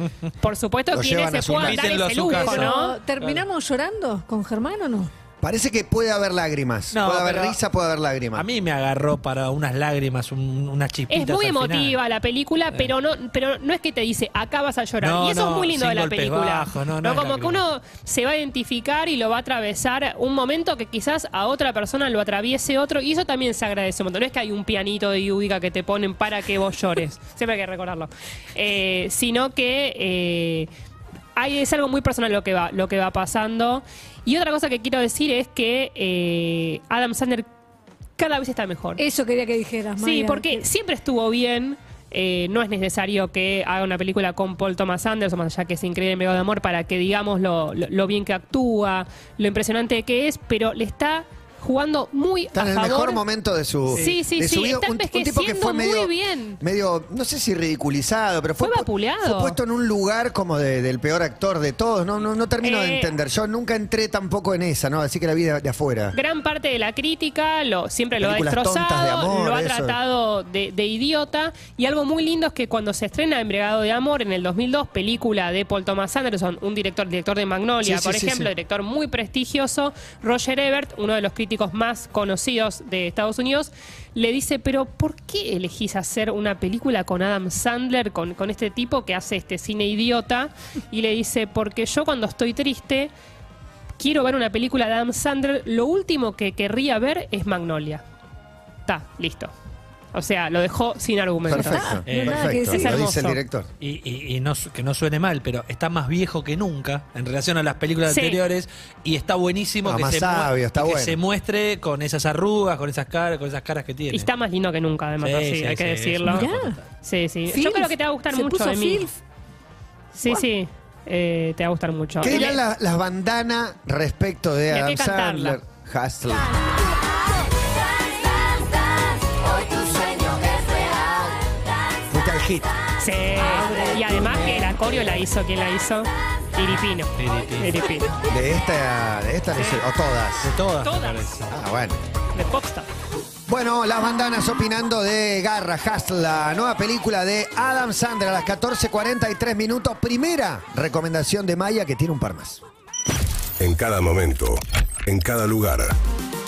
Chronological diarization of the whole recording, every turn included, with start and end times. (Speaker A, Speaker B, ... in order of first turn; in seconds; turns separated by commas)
Speaker A: 0.4-3.0, Speaker B: 0.9-2.0, Speaker C: 1.6-3.5, Speaker D: 2.3-5.1, Speaker B: 5.4-8.5, Speaker C: 6.9-7.6, Speaker C: 8.4-12.0, Speaker A: 11.1-30.7, Speaker C: 15.0-17.6, Speaker A: 31.4-37.5, Speaker A: 38.2-39.0, Speaker D: 39.0-40.6, Speaker A: 40.0-53.2, Speaker B: 52.5-66.2, Speaker A: 53.9-56.6, Speaker A: 58.6-59.6, Speaker A: 62.6-63.1, Speaker A: 66.1-93.1, Speaker B: 68.2-70.0, Speaker B: 77.8-78.5, Speaker A: 94.0-98.0, Speaker A: 98.9-99.5, Speaker A: 100.1-101.9, Speaker B: 101.5-103.7, Speaker D: 101.5-103.0, Speaker C: 102.1-102.6, Speaker A: 102.6-103.4, Speaker C: 103.8-114.3, Speaker A: 108.1-108.4, Speaker B: 109.8-111.2, Speaker A: 114.1-116.5, Speaker C: 115.2-116.8, Speaker D: 116.3-116.8, Speaker A: 117.0-119.1, Speaker D: 117.5-119.2, Speaker A: 120.1-122.6, Speaker B: 122.2-126.7, Speaker A: 124.7-125.6, Speaker B: 129.2-131.5, Speaker B: 132.1-132.8, Speaker A: 133.0-138.1, Speaker C: 133.6-134.6, Speaker C: 137.2-137.8, Speaker B: 138.2-140.6, Speaker A: 139.6-139.8, Speaker C: 140.4-141.5, Speaker A: 140.8-141.3, Speaker B: 141.5-142.0, Speaker A: 142.3-142.9, Speaker B: 143.5-152.6, Speaker E: 153.6-155.9